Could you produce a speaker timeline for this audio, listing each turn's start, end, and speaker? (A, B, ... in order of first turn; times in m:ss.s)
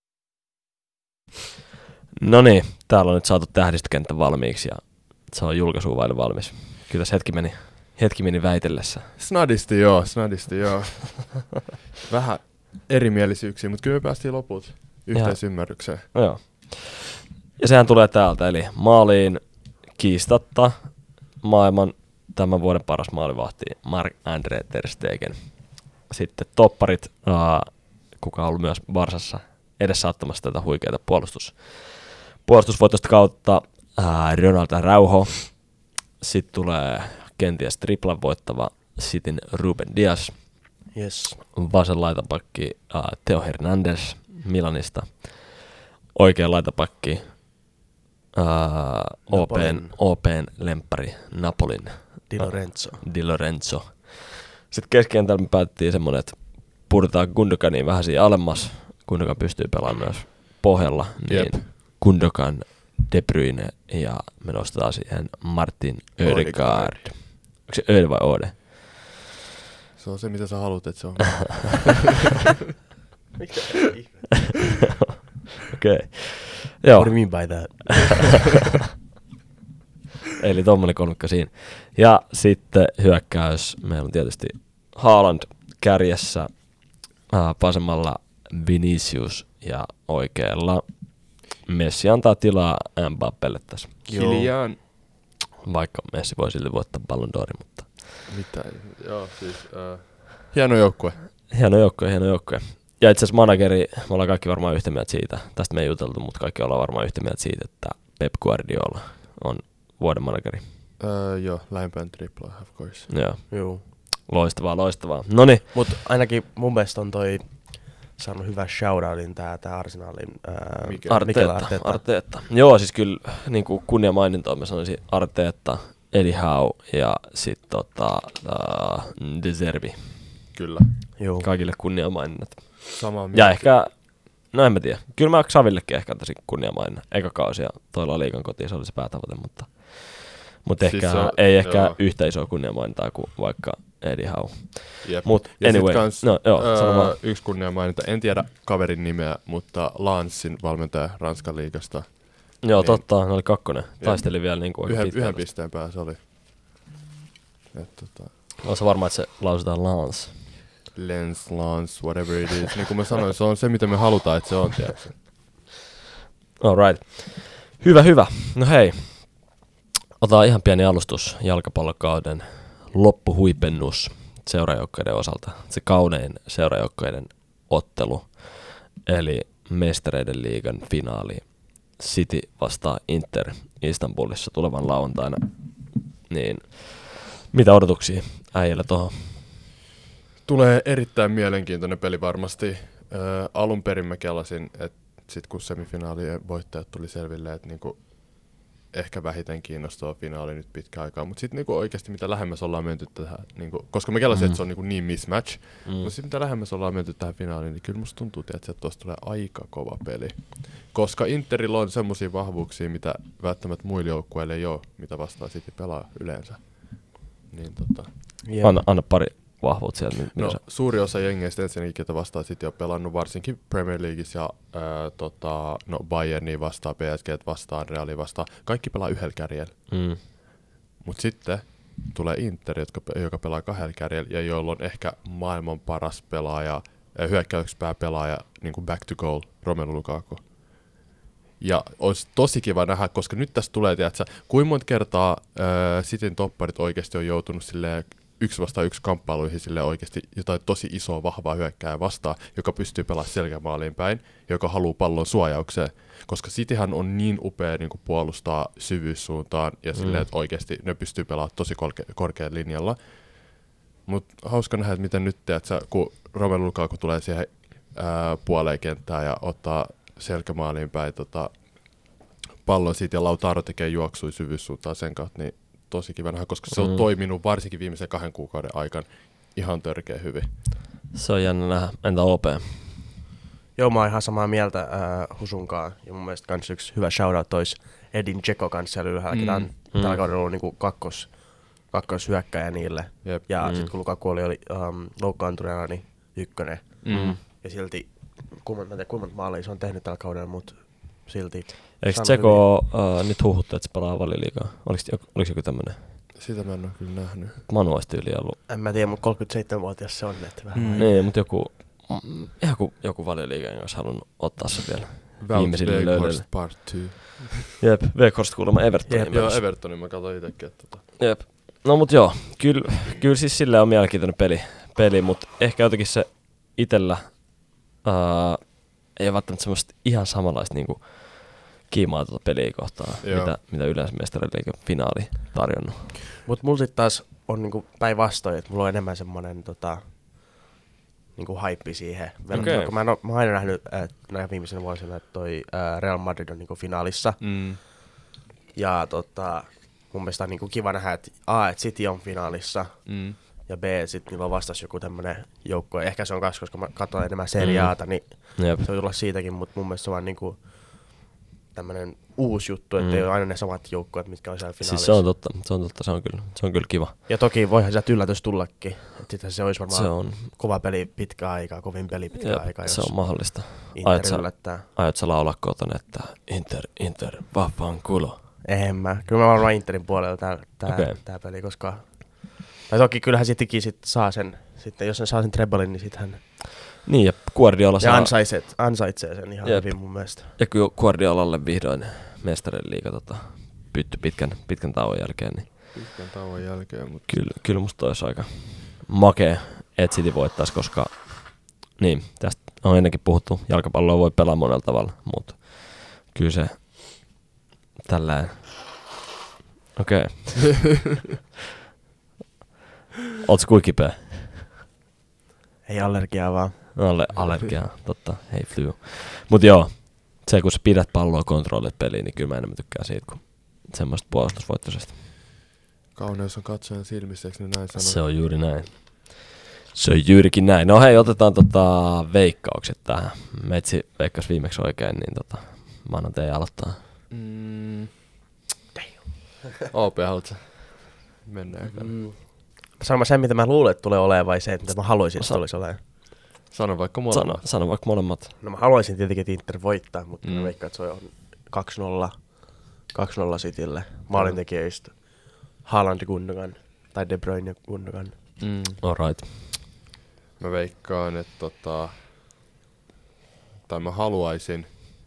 0:02.2-0:09.1 A
0:09.2-0:16.1 B
0:15.1-0:40.7 A
0:40.9-0:41.4 C
0:41.5-0:47.7 A
0:48.4-1:09.0 A
0:49.3-0:50.0 C
0:52.3-0:53.1 C
1:01.3-1:01.7 B
1:06.2-1:07.1 B
1:10.0-1:12.3 B
1:13.4-1:14.5 C
1:15.7-1:18.1 A
1:17.0-1:18.5 C
1:20.4-1:34.4 A
1:34.1-1:34.8 B
1:34.2-1:34.4 C
1:35.6-1:38.0 A
1:38.3-1:41.2 B
1:41.5-1:50.6 A
1:51.0-1:53.1 B
1:53.1-1:55.7 A
1:53.5-1:53.8 C
1:55.7-2:02.0 C
2:00.8-2:01.2 B
2:01.1-2:10.3 A
2:10.5-2:10.9 B
2:11.2-2:11.5 C
2:11.4-2:27.2 A
2:13.0-2:13.7 B
2:20.8-2:22.0 B
2:25.0-2:36.2 B
2:32.6-2:35.4 A
2:37.7-2:38.4 B
2:38.6-2:40.4 A
2:41.0-2:45.2 B
2:46.6-2:49.6 A
2:50.2-3:09.4 A
3:10.4-3:38.1 B
3:24.3-3:24.6 A
3:25.8-3:26.1 A
3:38.4-3:38.9 C
3:38.6-3:40.6 A
3:40.4-3:50.4 B
3:49.9-3:50.2 A
3:51.0-4:00.6 B
4:01.6-4:40.5 B
4:20.0-4:20.3 A
4:36.7-4:37.0 A
4:41.1-4:43.0 A
4:43.8-5:02.7 C
4:49.3-4:49.7 B
4:49.9-4:50.2 A
4:53.6-4:53.9 A
4:57.0-4:57.4 B
4:57.1-4:57.4 A
5:02.0-5:06.0 A
5:06.4-5:07.6 B
5:07.7-5:08.6 A
5:08.7-5:11.2 C
5:10.8-5:11.1 B
5:11.0-5:16.5 A
5:15.4-5:17.7 B
5:17.8-5:19.6 A
5:19.3-5:21.1 B
5:21.2-5:36.2 A
5:33.2-5:33.6 B
5:36.4-5:40.1 C
5:41.4-5:47.9 C
5:42.5-5:42.9 A
5:47.4-5:47.8 B
5:48.7-6:05.3 C
5:53.1-5:53.4 B
5:57.6-5:58.9 A
6:03.0-6:03.3 A
6:04.8-6:07.2 A
6:07.3-6:14.8 C
6:09.9-6:10.5 A
6:12.3-6:18.4 A
6:18.6-6:26.4 C
6:20.9-6:21.2 A
6:27.0-6:28.3 A
6:28.0-6:30.5 C
6:29.6-6:35.7 A
6:35.9-6:37.7 B
6:37.3-6:47.3 A
6:48.0-6:49.0 A
6:50.0-6:50.9 A
6:53.4-6:54.6 A
6:55.9-6:57.0 C
6:57.0-7:05.2 A
7:06.2-7:08.3 B
7:08.0-7:17.0 A
7:17.3-7:18.1 B
7:19.9-7:22.3 B
7:21.9-7:26.0 C
7:26.7-7:27.7 B
7:27.3-7:28.5 A
7:28.6-7:38.6 C
7:30.4-7:30.7 B
7:34.3-7:34.6 B
7:38.6-7:39.0 B
7:39.0-7:39.5 A
7:40.6-7:42.2 B
7:43.8-7:44.9 B